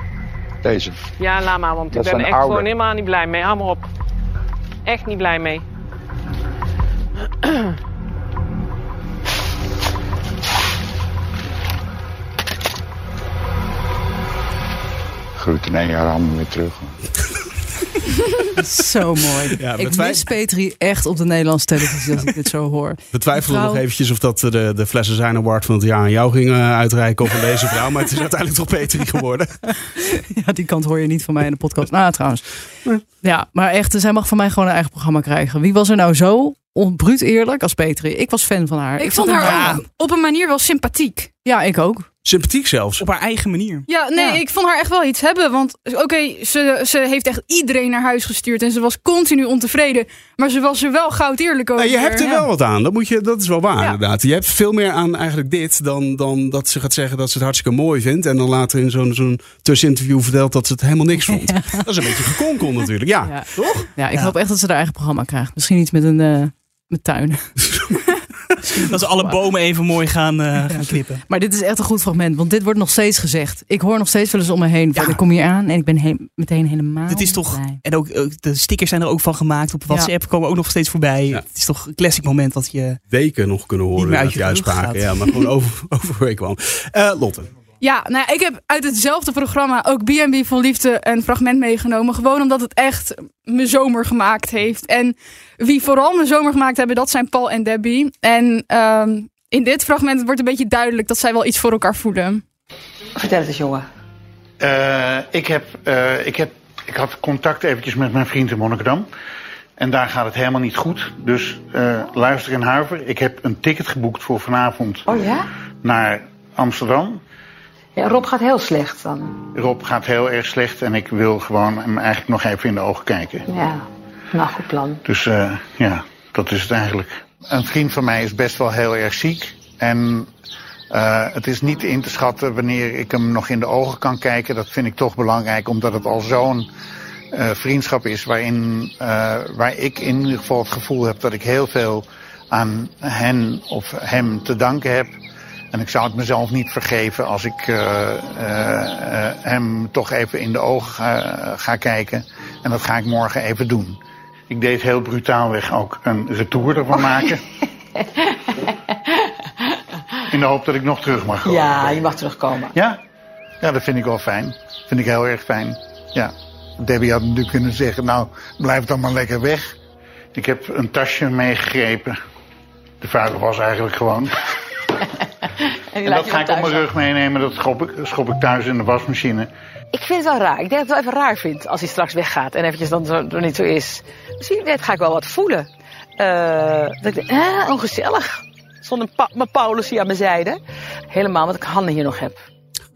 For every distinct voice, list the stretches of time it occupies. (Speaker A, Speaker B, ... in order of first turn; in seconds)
Speaker A: 0.6-1.0, 1.9-2.7, 15.4-16.9
Speaker B: 1.2-3.8, 4.8-5.6
Speaker C: 18.6-23.8, 29.9-32.4, 33.2-39.8, 41.4-42.1, 44.1-44.4, 61.3-61.9, 63.2-67.5, 69.0-69.3, 70.7-77.8
Speaker D: 19.6-20.3, 23.1-29.5, 42.2-43.0, 51.8-63.9, 83.1-87.5
Speaker E: 39.0-41.3, 43.9-52.4, 87.8-102.4
Speaker F: 39.5-39.7, 43.0-43.9, 68.8-71.2, 74.9-75.2, 77.1-83.0, 84.0-85.2
Speaker G: 103.2-103.8, 115.1-115.4, 118.0-119.3, 123.5-123.8, 124.4-124.9, 161.4-162.8, 175.9-176.9, 179.9-192.4
Speaker H: 104.6-109.1, 109.8-115.1, 115.8-117.2, 119.5-123.4, 125.1-130.3, 130.9-136.7, 137.3-145.1, 145.7-154.0, 154.5-157.4, 160.3-162.1, 162.7-163.0, 163.6-169.8, 170.3-172.2, 173.0-174.4, 176.0-179.5